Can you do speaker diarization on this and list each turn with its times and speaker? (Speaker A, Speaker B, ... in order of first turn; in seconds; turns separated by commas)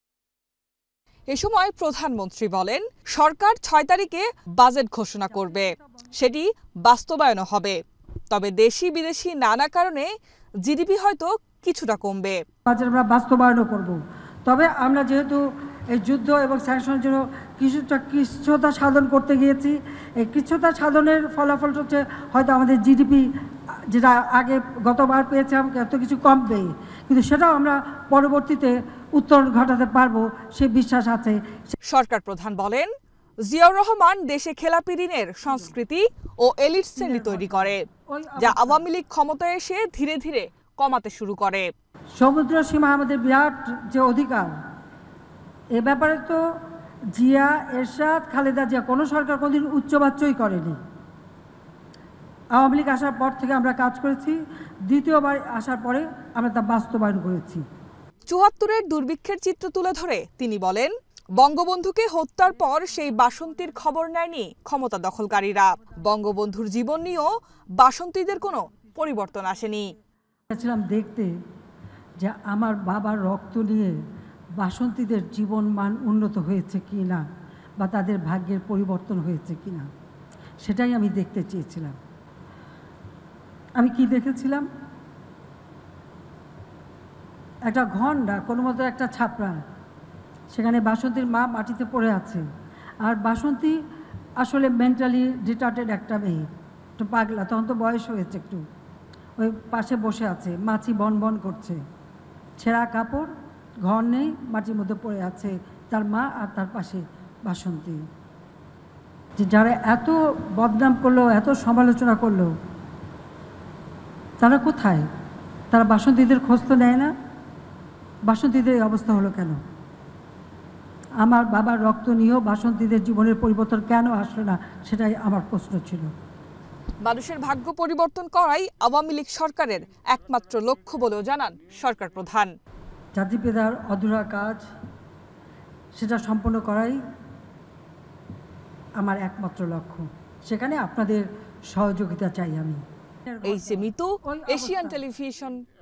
Speaker A: 1.3-7.8, Speaker B: 5.4-5.8, Speaker A: 8.3-10.1, Speaker A: 10.6-12.4, Speaker B: 12.7-23.3, Speaker B: 23.9-31.7, Speaker A: 31.9-32.9, Speaker A: 33.4-37.8, Speaker B: 37.0-38.9, Speaker A: 38.4-41.7, Speaker B: 42.2-44.5, Speaker B: 45.7-46.4, Speaker B: 47.1-50.8, Speaker B: 52.5-57.6, Speaker A: 58.3-69.9, Speaker B: 70.5-71.3, Speaker B: 72.2-74.0, Speaker B: 74.6-77.2, Speaker B: 77.8-79.9, Speaker B: 80.6-82.0, Speaker B: 83.8-84.7, Speaker B: 87.7-89.6, Speaker B: 90.5-92.4, Speaker B: 93.0-93.8, Speaker B: 94.4-96.5, Speaker B: 97.0-98.6, Speaker B: 99.4-101.8, Speaker B: 102.6-103.3, Speaker B: 103.8-108.0, Speaker B: 109.4-112.5, Speaker B: 114.4-115.1, Speaker B: 115.7-117.1, Speaker B: 118.3-119.6, Speaker B: 121.2-126.1, Speaker A: 127.0-132.5, Speaker B: 133.2-134.6, Speaker B: 136.0-137.0, Speaker B: 139.0-145.0, Speaker A: 143.4-145.6